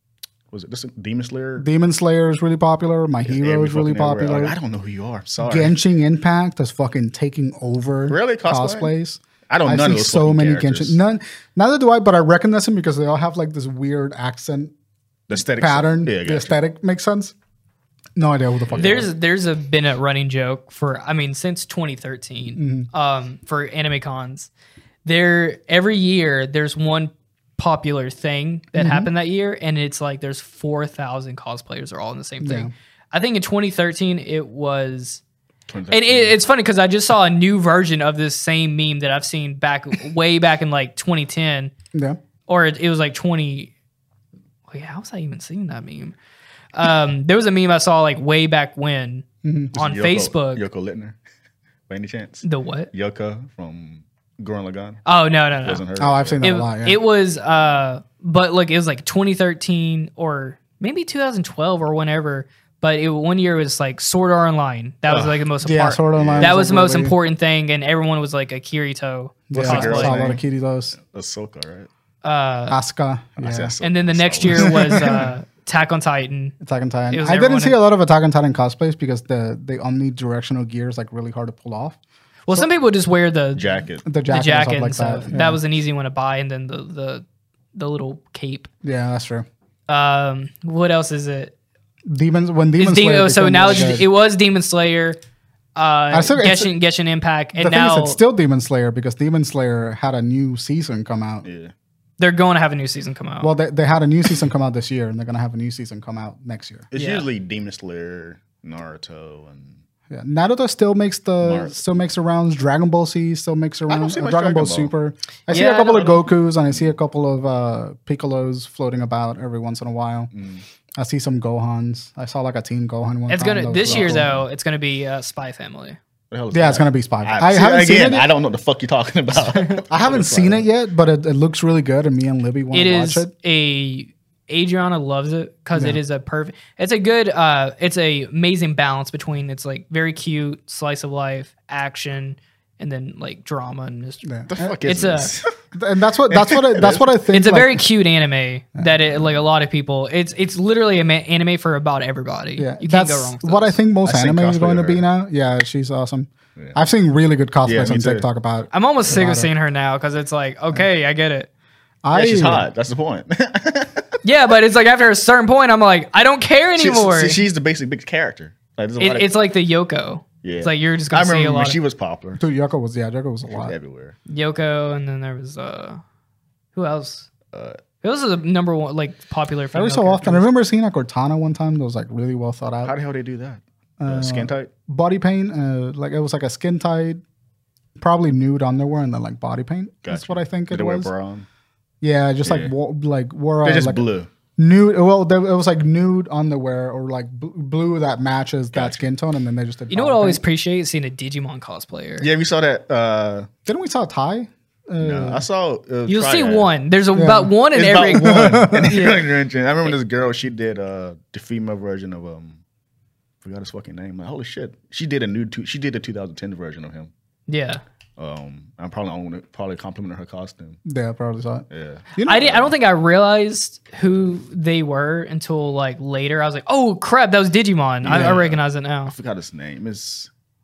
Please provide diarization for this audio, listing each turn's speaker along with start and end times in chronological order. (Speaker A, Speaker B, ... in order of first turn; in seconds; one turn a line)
Speaker A: 0.5-1.6
Speaker B: 1.6-4.5
Speaker A: 3.2-5.7
Speaker B: 5.4-14.7
Speaker A: 8.1-8.9
Speaker A: 9.5-11.0
Speaker A: 15.3-16.6
Speaker B: 15.6-17.3
Speaker B: 18.2-19.1
Speaker A: 18.7-18.9
Speaker C: 18.7-24.5
Speaker B: 22.6-22.9
Speaker C: 25.0-35.2
Speaker B: 28.7-29.1
Speaker B: 32.4-32.7
Speaker A: 35.7-36.4
Speaker C: 35.9-41.7
Speaker B: 41.9-42.2
Speaker C: 42.5-43.7
Speaker C: 44.7-46.1
Speaker C: 46.7-49.2
Speaker B: 49.4-49.7
Speaker A: 49.7-51.2
Speaker C: 49.8-50.6
Speaker A: 51.9-55.0
Speaker C: 52.4-52.9
Speaker C: 55.0-55.8
Speaker A: 55.5-56.4
Speaker B: 56.0-57.0
Speaker C: 56.4-70.1
Speaker A: 65.1-65.4
Speaker B: 65.6-67.2
Speaker A: 66.2-66.6
Speaker B: 69.5-71.0
Speaker A: 69.5-70.4
Speaker A: 70.9-71.9
Speaker C: 72.2-72.8
Speaker B: 72.7-73.8
Speaker A: 73.4-75.3
Speaker C: 73.8-76.6
Speaker B: 74.5-75.3
Speaker B: 76.6-82.0
Speaker C: 77.1-77.8
Speaker C: 82.5-88.7
Speaker A: 83.5-84.0
Speaker B: 84.0-85.6
Speaker B: 88.8-89.5
Speaker C: 89.9-91.5
Speaker B: 92.1-94.1
Speaker C: 92.8-95.2
Speaker C: 95.7-98.2
Speaker B: 96.1-96.7
Speaker B: 97.5-101.5
Speaker A: 101.4-101.7
Speaker C: 102.2-103.5
Speaker B: 103.4-106.9
Speaker A: 106.9-109.8
Speaker C: 106.9-107.3
Speaker B: 110.1-120.3
Speaker A: 111.4-111.8
Speaker A: 113.9-114.9
Speaker C: 115.5-116.2
Speaker A: 120.3-120.6
Speaker B: 121.0-124.3
Speaker C: 123.3-126.0
Speaker A: 123.8-124.4
Speaker A: 126.3-130.6
Speaker B: 126.5-128.3
Speaker C: 129.5-129.8
Speaker B: 129.9-133.3
Speaker C: 132.7-144.2
Speaker B: 135.7-136.0
Speaker B: 144.2-144.8
Speaker A: 144.5-145.5
Speaker C: 144.8-145.3
Speaker B: 145.7-147.8
Speaker A: 146.3-147.2
Speaker C: 147.3-153.8
Speaker B: 152.6-159.5
Speaker A: 154.0-155.0
Speaker A: 157.6-158.2
Speaker C: 158.7-161.5
Speaker B: 162.0-162.6
Speaker A: 162.1-164.2
Speaker C: 164.2-167.4
Speaker A: 166.8-169.3
Speaker C: 169.0-171.8
Speaker A: 170.4-172.4
Speaker B: 172.4-173.7
Speaker A: 173.5-174.2
Speaker C: 174.3-176.0
Speaker C: 176.7-177.3
Speaker A: 177.5-177.8
Speaker C: 178.0-180.5
Speaker B: 179.7-182.9
Speaker A: 182.8-184.7
Speaker B: 184.0-187.2
Speaker B: 188.0-191.1
Speaker A: 190.0-191.5
Speaker B: 192.0-194.0
Speaker A: 192.4-192.7
Speaker A: 193.6-194.3
Speaker B: 194.6-200.4
Speaker A: 198.7-199.0
Speaker C: 199.9-202.3
Speaker A: 202.2-203.5
Speaker B: 203.7-205.4
Speaker A: 205.0-206.7
Speaker C: 206.1-209.3
Speaker B: 207.1-207.5
Speaker A: 207.7-212.6
Speaker B: 208.3-208.9
Speaker A: 213.4-217.1
Speaker C: 217.5-217.8
Speaker A: 218.2-220.8
Speaker B: 220.8-222.5
Speaker A: 221.7-222.7
Speaker C: 222.2-229.1
Speaker A: 228.0-230.3
Speaker B: 228.1-228.4